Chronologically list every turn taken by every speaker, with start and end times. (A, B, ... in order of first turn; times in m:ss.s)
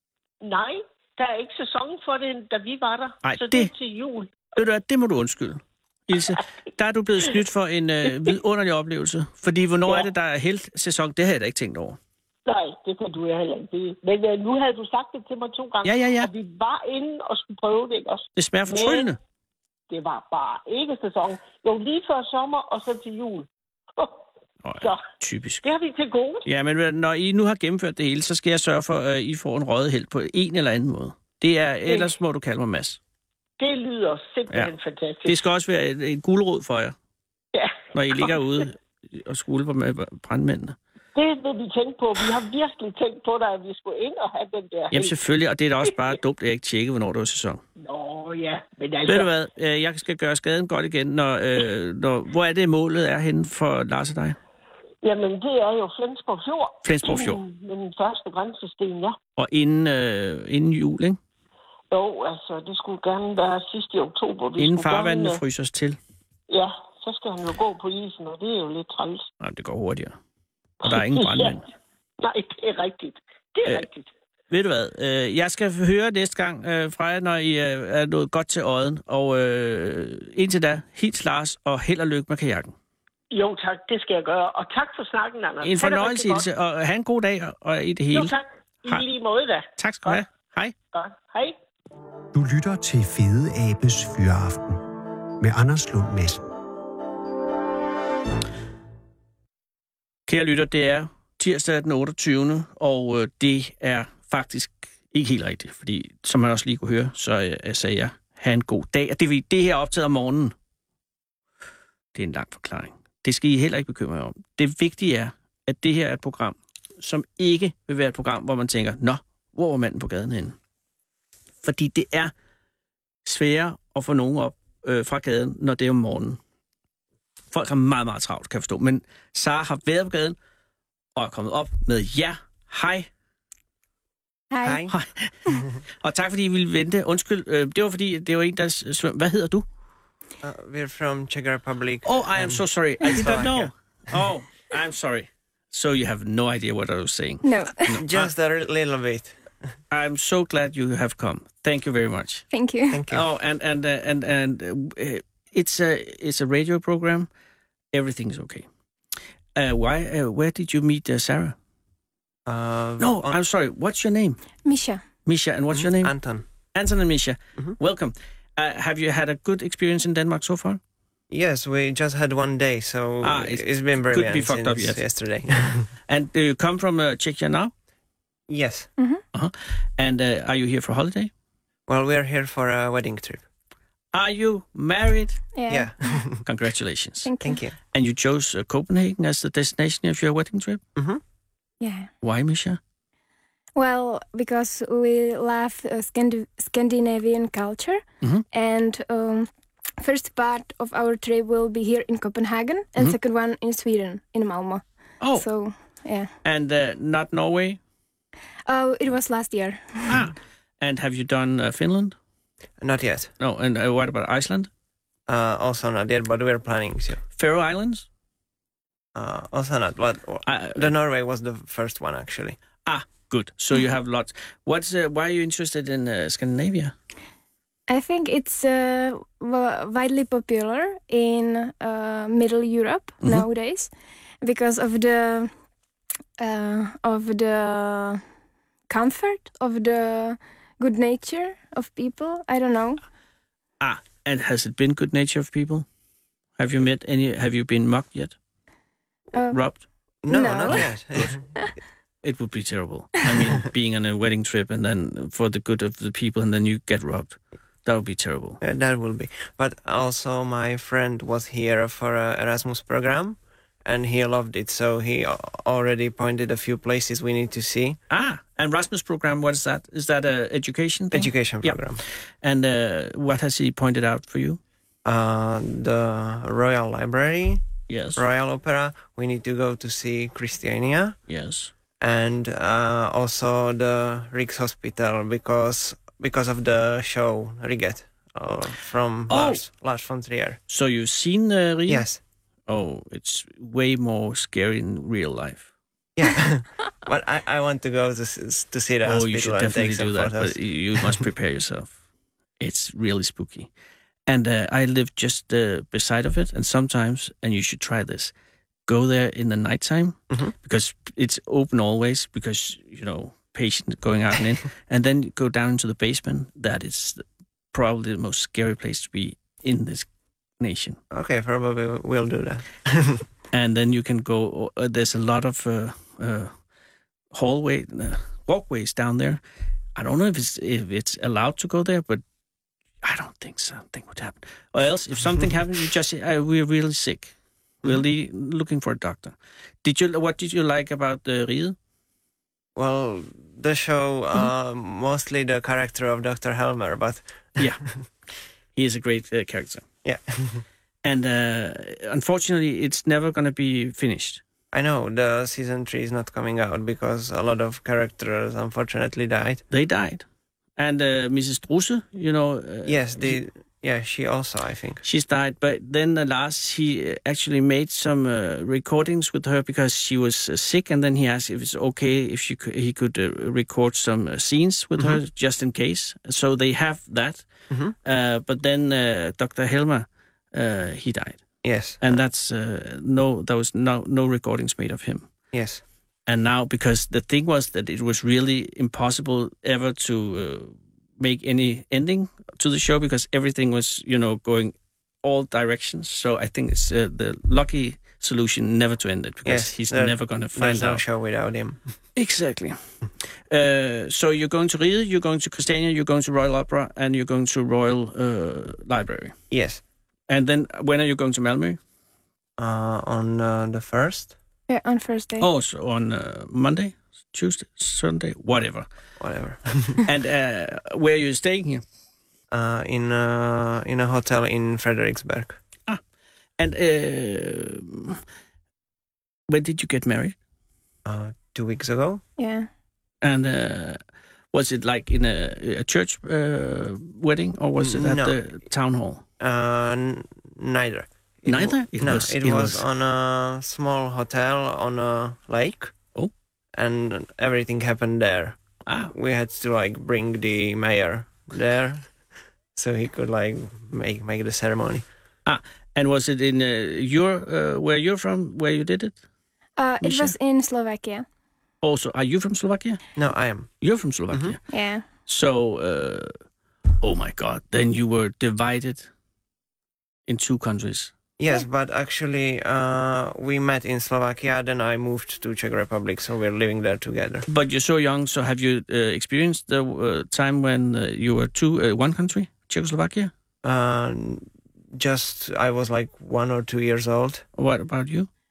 0:00.4-0:04.5 A
0:03.2-0:03.7 B
0:04.5-0:12.0 B
0:12.4-0:19.1 A
0:15.8-0:16.3 B
0:18.4-0:19.2 B
0:19.9-0:24.2 A
0:24.6-0:25.6 B
0:24.8-0:25.0 A
0:25.6-0:26.5 A
0:26.4-0:33.0 B
0:33.6-0:35.4 A
0:35.2-0:36.9 B
0:37.5-0:38.4 A
0:37.9-0:40.8 B
0:41.1-0:45.2 A
0:44.9-0:47.6 B
0:45.8-0:46.1 A
0:47.8-0:49.3 A
0:49.0-0:54.4 B
0:55.0-0:59.2 A
0:56.8-0:57.4 B
0:59.4-1:01.2 B
1:01.9-1:05.4 A
1:04.6-1:06.0 B
1:06.5-1:09.3 A
1:09.4-1:10.1 B
1:10.8-1:11.6 A
1:10.8-1:11.6 B
1:12.2-1:14.1 A
1:14.5-1:22.7 B
1:23.3-1:26.4 A
1:25.6-1:28.3 B
1:28.1-1:30.2 A
1:29.8-1:30.7 B
1:30.9-1:31.6 A
1:32.3-1:34.8 C
1:35.4-1:36.4 C
1:40.3-1:50.5 B
1:52.1-2:00.6 B
2:01.6-2:02.3 B
2:03.2-2:06.4 B
2:07.5-2:10.4 B
2:11.2-2:13.1 B
2:14.5-2:14.8 D
2:14.6-2:14.9 E
2:14.9-2:15.3 B
2:16.0-2:19.6 B
2:20.4-2:24.2 E
2:22.0-2:28.3 B
2:27.4-2:28.0 D
2:28.0-2:29.4 E
2:29.9-2:32.5 B
2:32.5-2:33.1 D
2:32.9-2:33.2 E
2:33.1-2:37.3 B
2:37.9-2:38.6 B
2:39.6-2:41.6 B
2:42.4-2:43.4 E
2:43.0-2:44.4 B
2:44.6-2:45.0 D
2:45.2-2:46.2 B
2:45.7-2:46.4 E
2:46.7-2:50.8 B
2:51.3-2:55.9 E
2:53.2-2:55.0 B
2:56.1-2:57.7 B
2:58.5-2:58.9 E
2:59.3-3:01.3 B
3:01.9-3:03.4 E
3:04.1-3:05.4 B
3:05.5-3:06.2 D
3:05.7-3:06.4 E
3:06.4-3:07.3 B
3:07.2-3:07.6 D
3:07.4-3:07.7 E
3:07.9-3:10.8 B
3:11.0-3:11.2 E
3:11.8-3:12.1 D
3:12.2-3:12.8 B
3:13.7-3:19.5 D
3:20.0-3:26.3 D
3:25.2-3:25.5 B
3:26.4-3:27.8 B
3:28.7-3:30.2 D
3:30.1-3:32.2 B
3:32.8-3:33.3 E
3:33.4-3:34.7 B
3:35.3-3:37.2 E
3:37.4-3:38.0 B
3:39.1-3:42.6 E
3:40.4-3:40.9 B
3:42.8-3:46.9 B
3:47.9-3:55.5 D
3:56.4-3:58.2 D
3:58.9-4:03.0 D
4:03.8-4:05.8 B
4:06.6-4:08.3 B
4:09.3-4:09.6 D
4:09.5-4:09.8 B
4:10.2-4:11.5 E
4:10.3-4:11.0 D
4:12.2-4:18.6 B
4:18.6-4:28.0 E
4:28.1-4:31.8 B
4:31.1-4:32.0 E
4:32.4-4:34.6 B
4:35.0-4:41.2 E
4:37.9-4:38.2 B
4:41.3-4:41.7 B
4:42.0-4:50.6 E
4:49.3-4:49.6 B
4:50.7-4:52.0 B
4:51.9-4:52.2 E
4:52.7-4:55.7 B
4:56.2-5:01.2 E
4:59.0-5:01.9 B
5:02.6-5:03.7 B
5:04.3-5:08.3 B
5:08.9-5:20.1 B
5:20.6-5:21.0 B
5:21.1-5:23.2 E
5:23.5-5:26.5 B
5:27.3-5:29.4 B
5:30.0-5:32.2 B
5:33.0-5:41.8 B
5:42.7-5:47.8 E
5:48.8-5:49.8 B
5:50.0-5:50.6 E
5:51.0-5:54.4 B
5:54.7-5:59.6 E
5:59.7-6:00.2 B
6:00.8-6:03.4 B
6:02.8-6:05.0 E
6:05.0-6:17.4 B
6:17.7-6:17.9 E
6:18.0-6:21.4 B
6:21.6-6:22.2 E
6:22.0-6:25.3 B
6:25.5-6:25.8 E
6:26.3-6:41.0 B
6:39.4-6:41.9 E
6:42.2-6:42.8 B
6:43.5-6:49.3 B
6:49.5-6:49.8 E
6:50.3-6:51.8 B
6:52.6-6:54.4 E
6:54.7-6:55.5 D
6:55.4-6:58.8 B
6:59.2-7:00.0 E
7:00.0-7:01.8 B
7:02.5-7:05.6 E
7:06.6-7:08.2 B
7:09.5-7:10.3 B
7:11.0-7:12.2 E
7:12.4-7:12.7 D
7:13.2-7:14.0 B
7:14.5-7:19.2 B
7:17.8-7:18.4 E
7:19.4-7:26.0 E
7:21.5-7:22.8 B
7:26.7-7:28.6 E
7:28.8-7:29.1 B
7:29.1-7:32.1 E
7:32.7-7:35.0 E
7:35.4-7:39.2 B
7:39.8-7:41.2 D
7:40.0-7:40.3 B
7:41.8-7:43.0 B
7:43.2-7:43.7 E
7:43.8-7:44.6 B
7:44.7-7:45.0 D
7:45.2-7:46.3 B
7:47.0-7:49.1 B
7:50.3-7:51.1 B
7:51.4-7:57.4 E
7:57.5-8:03.3 B
8:03.6-8:07.4 E
8:07.6-8:08.3 B